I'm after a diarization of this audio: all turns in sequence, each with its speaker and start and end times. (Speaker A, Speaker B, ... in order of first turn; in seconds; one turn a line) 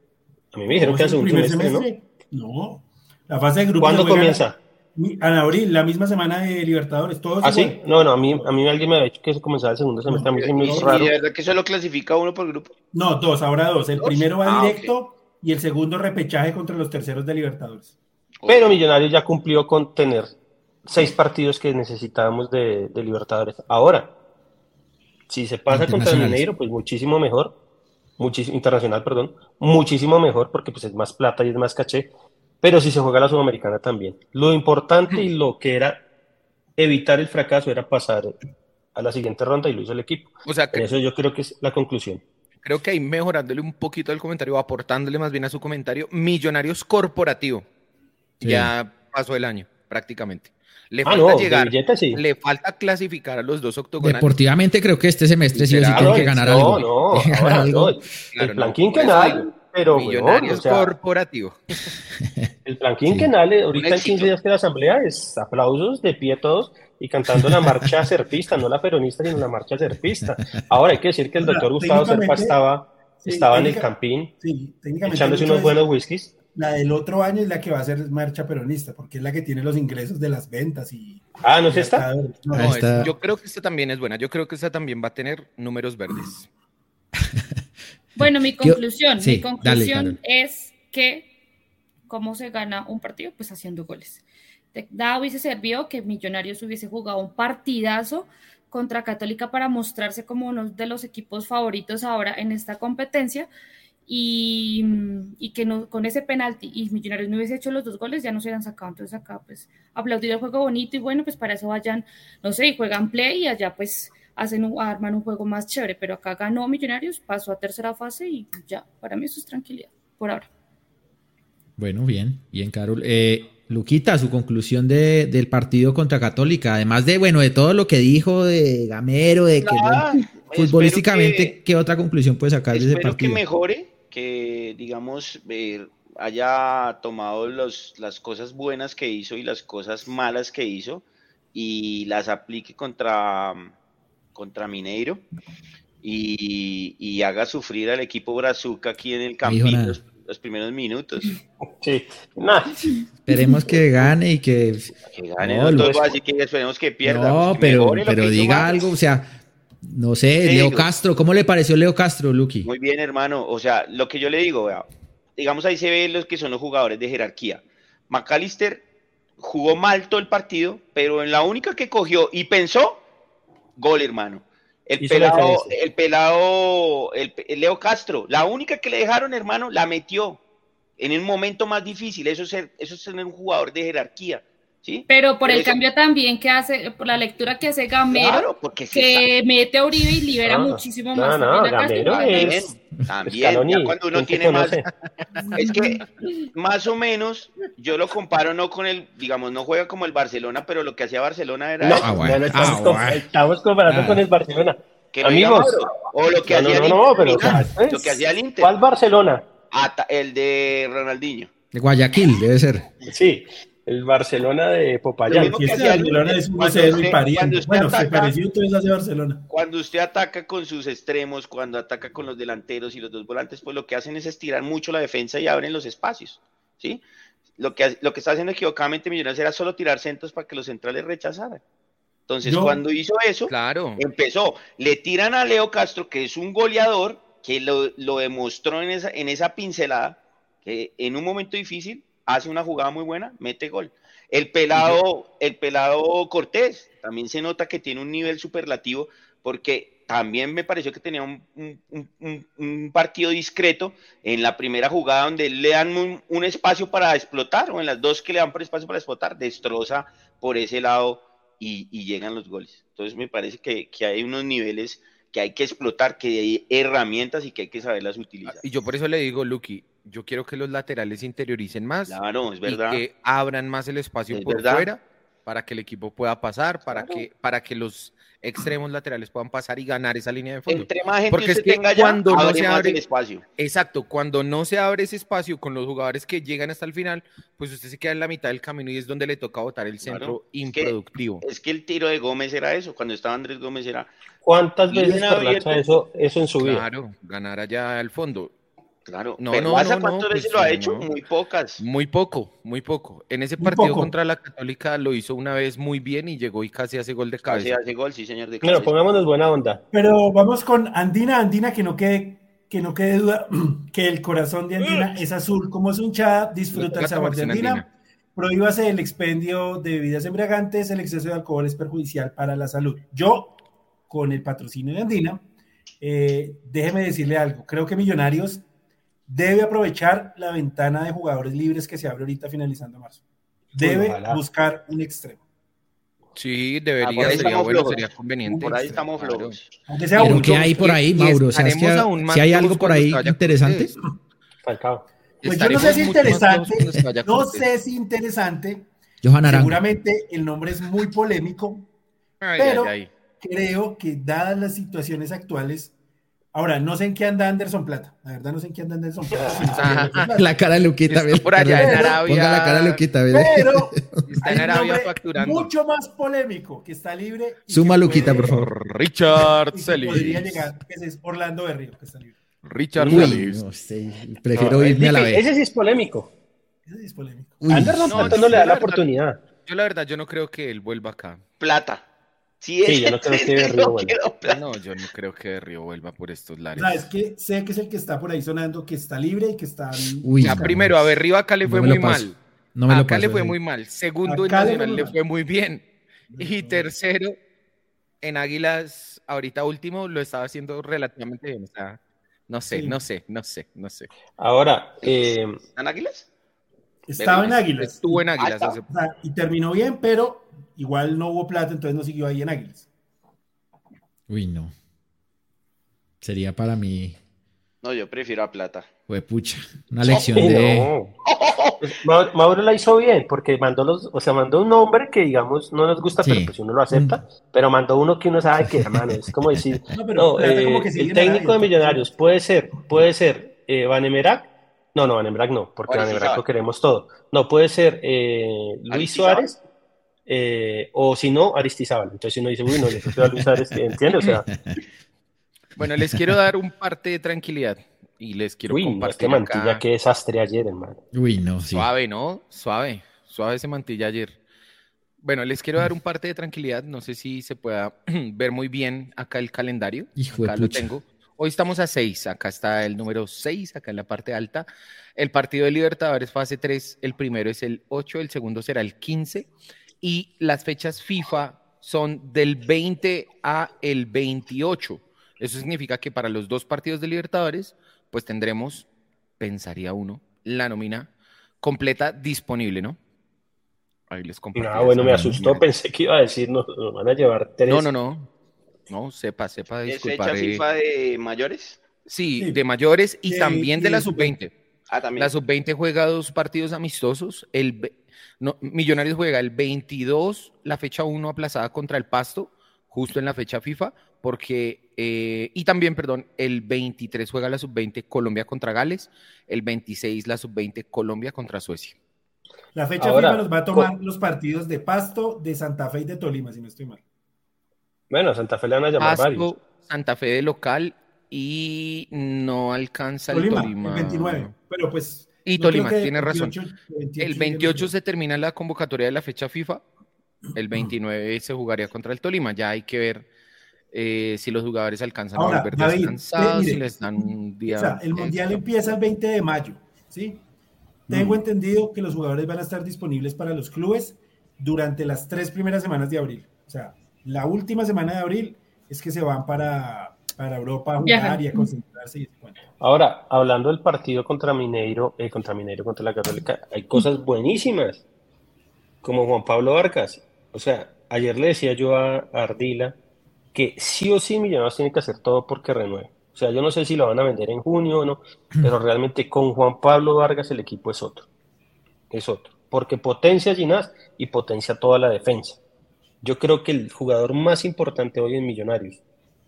Speaker A: 0.5-1.9
Speaker B: 0.7-8.5
Speaker A: 3.8-4.6
Speaker A: 7.4-11.2
Speaker B: 10.1-11.1
Speaker C: 10.4-12.7
Speaker B: 12.9-17.9
Speaker C: 14.0-14.9
Speaker C: 18.4-18.8
Speaker A: 18.5-24.1
Speaker A: 25.3-27.6
Speaker D: 25.7-26.4
Speaker A: 28.2-32.1
Speaker A: 32.6-36.0
Speaker A: 36.8-38.4
Speaker A: 39.0-42.2
Speaker E: 40.5-40.9
Speaker E: 42.6-47.6
Speaker D: 48.4-48.7
Speaker E: 48.4-54.4
Speaker A: 51.0-52.2
Speaker D: 54.0-58.0
Speaker E: 55.5-56.9
Speaker A: 55.9-60.9
Speaker E: 58.3-61.6
Speaker A: 62.6-74.3
Speaker C: 63.8-64.3
Speaker B: 71.4-72.6
Speaker B: 73.2-75.8
Speaker A: 75.0-76.3
Speaker B: 76.5-83.1
Speaker A: 81.4-82.1
Speaker D: 82.5-83.1
Speaker E: 82.5-86.5
Speaker F: 88.2-91.3
Speaker D: 88.6-90.2
Speaker F: 92.1-94.2
Speaker F: 94.7-103.5
Speaker F: 104.1-120.5
Speaker D: 121.8-133.4
Speaker C: 129.6-131.6
Speaker C: 132.7-143.7
Speaker C: 144.3-145.2
Speaker C: 146.0-151.4
Speaker D: 149.4-150.0
Speaker A: 151.8-152.9
Speaker D: 153.2-155.9
Speaker C: 155.1-158.8
Speaker A: 155.7-156.1
Speaker D: 157.0-162.7
Speaker C: 160.4-160.9
Speaker C: 162.6-168.8
Speaker C: 169.4-173.0
Speaker C: 173.8-180.4
Speaker A: 175.0-175.7
Speaker C: 181.0-185.8
Speaker F: 185.1-192.5
Speaker C: 188.1-189.2
Speaker A: 190.4-192.7
Speaker C: 192.1-194.8
Speaker A: 193.3-194.9
Speaker C: 195.5-202.7
Speaker A: 201.8-205.8
Speaker D: 201.9-203.2
Speaker D: 203.9-204.2
Speaker C: 205.1-208.7
Speaker A: 206.4-209.4
Speaker C: 209.7-211.5
Speaker D: 211.7-212.9
Speaker A: 213.1-215.7
Speaker B: 215.3-219.4
Speaker C: 215.3-218.3
Speaker C: 219.5-227.0
Speaker C: 227.6-231.6
Speaker C: 232.3-268.6
Speaker B: 232.4-232.8
Speaker E: 233.5-234.0
Speaker E: 268.5-283.0
Speaker C: 272.1-273.0
Speaker C: 274.3-274.9
Speaker C: 276.9-277.2
Speaker C: 280.7-283.4
Speaker E: 283.6-291.4
Speaker C: 290.0-294.1
Speaker A: 294.4-296.8
Speaker C: 294.9-295.8
Speaker E: 296.6-298.5
Speaker C: 299.1-301.8
Speaker E: 299.4-301.1
Speaker E: 301.8-307.8
Speaker B: 303.6-304.1
Speaker C: 307.4-308.9
Speaker A: 308.6-309.8
Speaker B: 309.9-323.6
Speaker E: 316.7-317.9
Speaker B: 324.1-325.4
Speaker B: 326.0-328.7
Speaker B: 329.3-333.2
Speaker B: 333.7-335.4
Speaker A: 333.8-334.4
Speaker E: 336.4-339.6
Speaker C: 337.0-339.7
Speaker B: 337.2-337.6
Speaker B: 338.5-338.9
Speaker B: 339.9-341.0
Speaker E: 340.2-344.0
Speaker D: 340.2-344.0
Speaker A: 344.6-345.1
Speaker E: 345.4-347.7
Speaker B: 345.4-348.9
Speaker D: 349.2-349.8
Speaker B: 349.4-351.9
Speaker E: 352.4-353.1
Speaker B: 352.6-355.9
Speaker B: 356.5-360.6
Speaker A: 359.3-359.7
Speaker E: 359.8-360.4
Speaker D: 360.2-364.2
Speaker E: 361.1-363.0
Speaker B: 361.7-362.2
Speaker B: 363.3-368.6
Speaker E: 364.3-365.7
Speaker D: 367.7-368.7
Speaker E: 368.4-370.4
Speaker B: 369.4-372.4
Speaker E: 372.6-373.6
Speaker A: 373.0-373.4
Speaker D: 373.0-375.4
Speaker A: 374.6-376.3
Speaker B: 376.9-377.6
Speaker D: 377.6-378.6
Speaker A: 377.7-379.4
Speaker E: 378.1-379.1
Speaker E: 379.6-381.4
Speaker C: 381.6-382.0
Speaker C: 382.6-384.6
Speaker A: 382.8-384.2
Speaker E: 384.4-387.0
Speaker B: 386.8-390.9
Speaker D: 390.2-391.0
Speaker E: 390.4-392.4
Speaker D: 391.6-393.6
Speaker E: 392.9-395.9
Speaker B: 394.2-395.2
Speaker B: 396.3-396.9
Speaker E: 396.4-397.4
Speaker E: 398.2-404.1
Speaker B: 402.7-403.0
Speaker A: 404.4-405.6
Speaker C: 405.0-406.3
Speaker B: 407.1-408.2
Speaker C: 407.2-407.5
Speaker E: 407.2-408.9
Speaker C: 408.4-408.8
Speaker B: 408.9-412.9
Speaker D: 414.3-414.7
Speaker D: 416.2-417.2
Speaker C: 417.8-418.9
Speaker D: 419.1-420.9
Speaker A: 420.1-421.1
Speaker C: 421.3-421.8
Speaker A: 421.8-439.6
Speaker D: 426.2-427.2
Speaker B: 429.9-432.1
Speaker C: 435.9-436.5
Speaker C: 438.9-439.5
Speaker A: 440.3-444.5
Speaker E: 445.8-449.8
Speaker A: 448.7-451.0
Speaker D: 451.1-451.9
Speaker E: 451.7-454.4
Speaker E: 455.2-464.7
Speaker D: 460.2-460.9
Speaker E: 465.2-469.5
Speaker E: 470.0-478.9
Speaker E: 479.4-481.1
Speaker E: 481.6-483.0
Speaker E: 484.1-485.7
Speaker A: 484.6-487.9
Speaker D: 485.1-485.4
Speaker E: 487.7-488.3
Speaker E: 488.9-490.6
Speaker C: 489.9-491.8
Speaker E: 492.1-494.5
Speaker B: 493.3-494.4
Speaker C: 494.9-495.3
Speaker E: 495.2-511.9
Speaker B: 512.7-517.0
Speaker A: 513.0-513.9
Speaker A: 518.1-519.5
Speaker E: 519.0-524.5
Speaker B: 523.3-527.9
Speaker E: 525.5-526.5
Speaker E: 527.2-529.8
Speaker E: 530.5-533.3
Speaker E: 533.9-538.6
Speaker B: 535.3-540.4
Speaker B: 541.1-552.6
Speaker F: 551.0-551.7
Speaker A: 552.8-558.0
Speaker A: 559.0-563.0
Speaker A: 563.5-571.3
Speaker A: 572.1-575.6
Speaker A: 576.2-579.0